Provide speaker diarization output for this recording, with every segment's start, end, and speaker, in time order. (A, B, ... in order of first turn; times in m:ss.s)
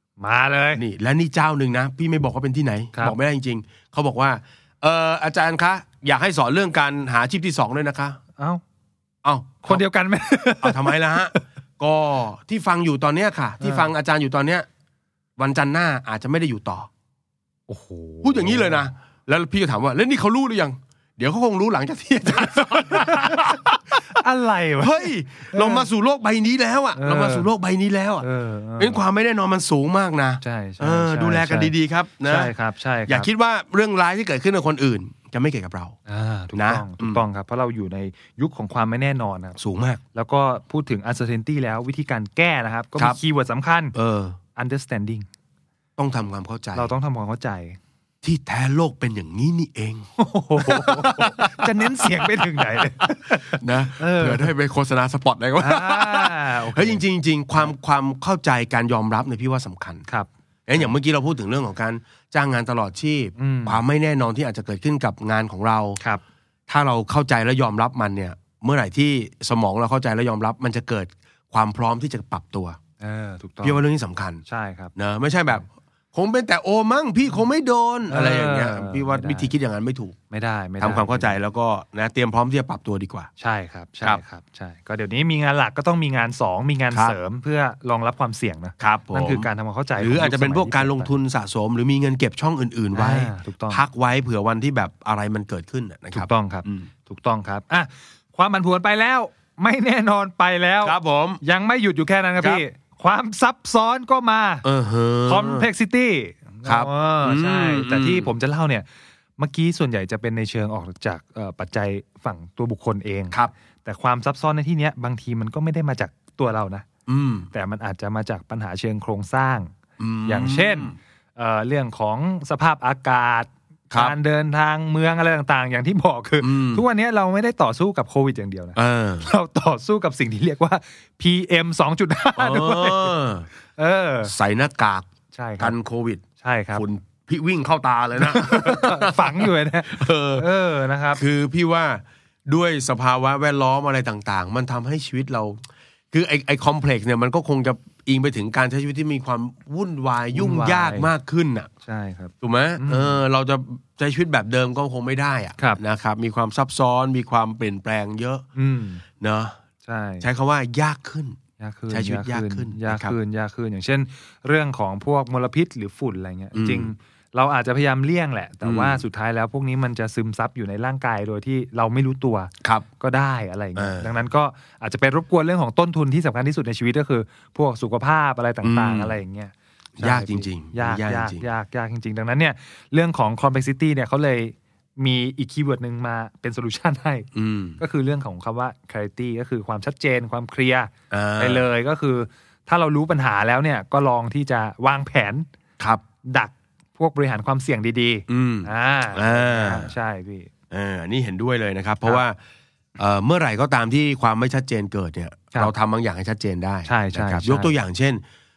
0:00.2-0:00.8 A
0:00.8-0:08.2 B
0:09.2-0:09.8 B
0:09.6-0:11.4 A
0:10.6-0:14.6 B
0:13.6-0:13.9 A
0:15.4-0:16.9 B
0:17.7-0:18.9 A
0:18.2-0:24.2 B
0:22.5-0:25.9 A
0:24.8-0:28.2 B
0:26.9-0:27.5 A
0:28.2-0:29.0 A
0:28.8-0:32.5 B
0:30.4-0:31.7 A
0:32.2-0:33.3 A
0:33.1-0:36.0 B
0:36.1-0:39.6 A
0:36.5-0:37.2 B
0:39.6-0:40.0 B
0:40.1-0:43.9 A
0:43.9-0:44.4 B
0:44.6-0:45.2 A
0:46.0-0:46.9 B
0:46.7-0:47.8 A
0:48.2-0:50.1 B
0:50.2-0:54.5 A
0:50.6-1:00.0 B
0:55.6-0:57.0 A
1:00.1-1:00.9 A
1:00.7-1:06.0 B
1:03.4-1:03.8 A
1:06.7-1:12.8 B
1:13.0-1:13.8 A
1:13.6-1:14.4 B
1:14.4-1:14.9 A
1:15.0-1:20.2 B
1:18.1-1:19.5 A
1:20.3-1:21.4 A
1:20.8-1:23.3 B
1:23.4-1:31.1 A
1:26.9-1:27.2 B
1:28.8-1:29.5 B
1:30.0-1:36.9 B
1:32.9-1:33.8 A
1:36.1-1:44.6 A
1:40.8-1:41.4 B
1:44.6-1:45.7 B
1:45.3-1:48.8 A
1:46.6-1:48.3 B
1:49.4-1:56.8 A
1:57.1-1:57.5 B
1:57.5-1:59.7 A
2:00.0-2:00.9 B
2:00.2-2:13.1 A
2:06.4-2:06.8 B
2:08.8-2:09.3 B
2:12.4-2:13.5 B
2:13.8-2:14.3 A
2:14.2-2:15.1 B
2:15.3-2:15.7 A
2:15.6-2:16.2 B
2:16.4-2:16.8 A
2:16.7-2:20.5 B
2:18.2-2:21.2 A
2:21.1-2:31.7 B
2:30.3-2:31.1 A
2:31.8-2:33.2 A
2:32.4-2:38.4 B
2:38.6-2:39.0 A
2:39.2-2:39.6 B
2:39.8-2:40.3 A
2:40.2-2:41.4 B
2:41.6-3:07.3 A
2:41.9-2:43.2 B
2:46.5-2:46.9 B
2:48.6-2:49.0 B
2:53.8-2:54.1 B
2:58.6-2:59.2 B
3:00.0-3:01.4 B
3:07.3-3:07.8 B
3:07.8-3:15.5 A
3:11.1-3:11.6 B
3:16.2-3:20.5 A
3:18.3-3:19.9 B
3:20.7-3:22.4 B
3:23.0-3:28.2 B
3:26.9-3:27.7 A